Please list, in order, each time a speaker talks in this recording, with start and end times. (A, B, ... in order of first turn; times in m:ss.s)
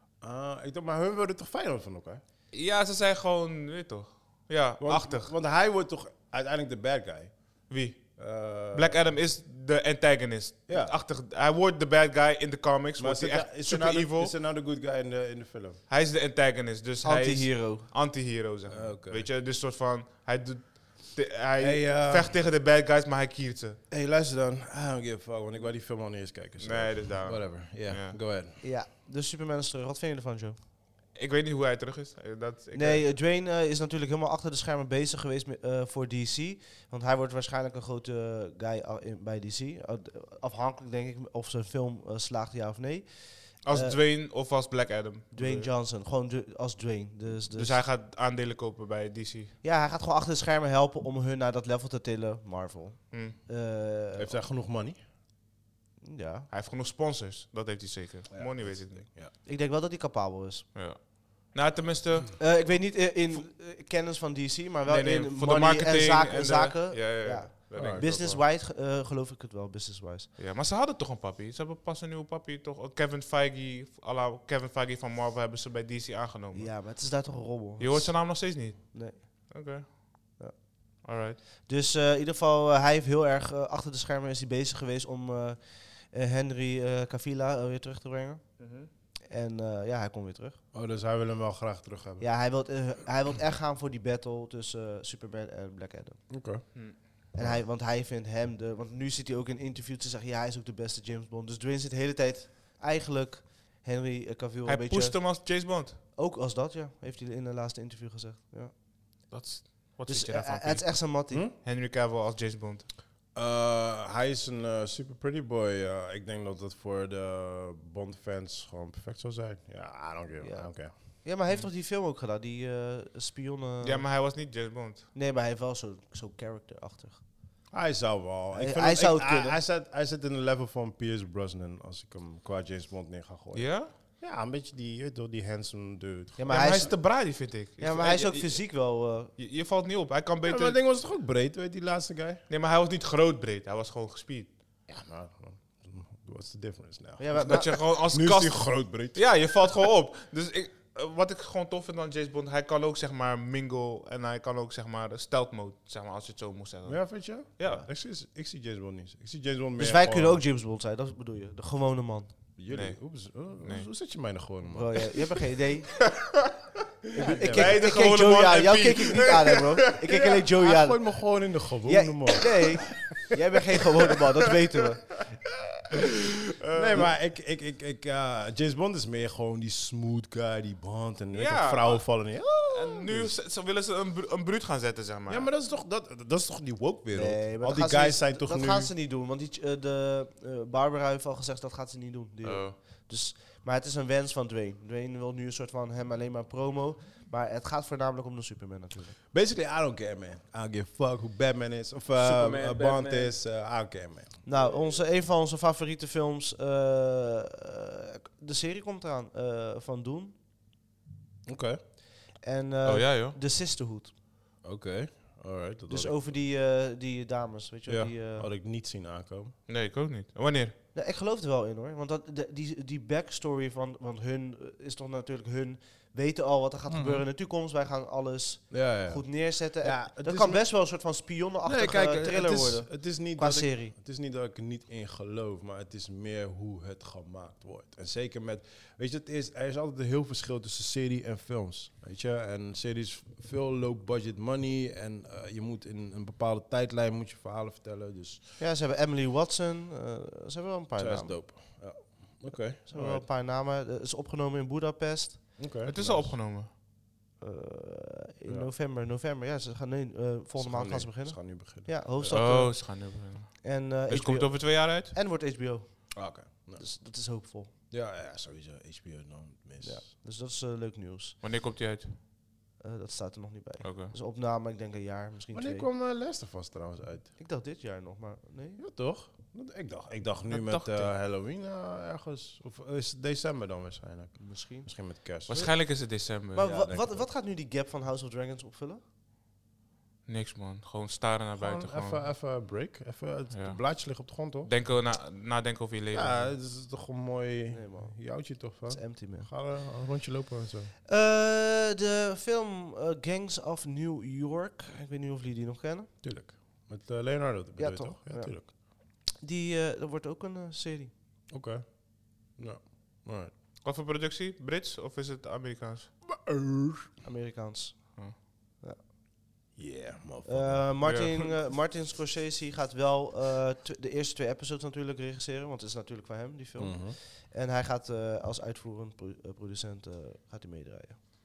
0:00.2-0:02.2 A
0:02.5-0:05.3 B
0:04.8-0:09.2 A
0:07.7-0:14.3 B
0:10.7-0:11.0 A
0:13.0-0:15.8 A
0:15.9-0:23.8 B
0:17.0-0:17.9 C
0:18.7-0:19.3 A
0:21.6-0:22.4 A
0:23.9-0:28.6 A
0:26.6-0:28.2 B
0:28.6-0:30.6 C
0:31.1-0:33.0 B
0:32.8-0:44.0 C
0:43.6-0:45.7 B
0:45.3-0:47.8 C
0:47.5-0:49.6 B
0:49.6-0:54.4 C
0:54.2-0:55.0 A
0:56.0-0:56.5 C
0:56.5-0:59.0 B
0:58.3-0:59.3 A
0:59.4-1:00.7 C
1:00.7-1:02.4 B
1:02.4-1:10.3 C
1:04.9-1:08.4 B
1:07.8-1:08.0 A
1:10.4-1:16.8 B
1:16.5-1:19.2 C
1:17.8-1:20.2 B
1:20.4-1:20.7 C
1:21.0-1:21.4 B
1:21.7-1:28.4 C
1:28.6-1:28.9 B
1:29.3-1:30.6 C
1:30.7-1:32.2 A
1:32.2-1:36.3 C
1:36.3-1:37.6 A
1:37.3-1:45.3 C
1:44.6-1:46.0 B
1:46.2-1:48.7 C
1:49.3-1:51.0 B
1:50.1-1:51.4 C
1:51.3-1:51.6 A
1:51.6-1:52.9 B
1:53.4-2:00.9 A
2:00.4-2:04.1 C
2:03.8-2:05.1 B
2:05.1-2:07.2 C
2:07.7-2:16.9 A
2:08.5-2:09.6 C
2:13.5-2:13.9 B
2:16.4-2:17.1 C
2:16.5-2:18.7 B
2:17.8-2:19.3 C
2:19.4-2:20.8 B
2:20.4-2:22.4 A
2:22.5-2:24.5 B
2:24.9-2:29.3 A
2:27.2-2:27.8 C
2:27.4-2:37.9 B
2:36.9-2:40.4 A
2:39.8-2:42.3 C
2:42.6-2:45.0 A
2:42.7-2:43.1 B
2:43.6-2:43.9 B
2:44.7-2:46.0 C
2:46.1-2:46.5 B
2:47.2-2:47.8 A
2:47.2-2:51.3 C
2:47.5-2:50.2 B
2:50.6-2:52.5 A
2:51.8-2:55.2 C
2:55.9-2:57.1 B
2:56.7-3:03.3 A
3:01.3-3:02.2 B
3:02.7-3:05.5 B
3:05.3-3:08.9 A
3:07.1-3:19.2 C
3:12.4-3:12.8 B
3:19.3-3:24.4 A
3:22.2-3:23.4 B
3:24.4-3:30.4 C
3:31.5-3:31.8 A
3:32.4-3:34.1 C
3:32.8-3:33.4 B
3:34.6-3:36.2 A
3:35.9-3:38.5 C
3:37.9-3:39.6 A
3:39.7-3:40.8 B
3:40.9-3:53.9 C
3:46.9-3:47.2 A
3:48.7-3:50.6 A
3:51.6-4:08.6 A
4:08.6-4:11.4 C
4:11.0-4:13.3 A
4:12.9-4:15.6 C
4:15.6-4:16.4 A
4:15.8-4:16.7 B
4:17.4-4:27.7 C
4:20.6-4:22.3 A
4:22.3-4:25.1 B
4:26.1-4:26.8 A
4:27.9-4:30.0 A
4:29.8-4:31.4 C
4:31.4-4:32.2 B
4:32.8-4:35.9 C
4:33.8-4:34.1 B
4:35.5-4:37.3 A
4:37.4-4:38.8 C
4:38.8-4:45.5 A
4:40.5-4:41.1 B
4:44.4-4:46.0 C
4:45.5-4:46.8 B
4:46.5-4:49.0 C
4:46.7-4:47.2 A
4:50.3-4:52.2 B
4:51.6-4:54.7 A
4:53.5-4:56.6 B
4:56.1-5:00.9 A
4:57.7-4:59.5 C
5:01.1-5:06.1 C
5:06.2-5:08.7 A
5:07.8-5:11.1 C
5:11.5-5:13.5 A
5:13.8-5:16.1 B
5:16.4-5:17.1 A
5:17.2-5:19.0 C
5:19.8-5:20.9 A
5:20.5-5:31.2 C
5:21.0-5:21.5 B
5:26.8-5:27.2 A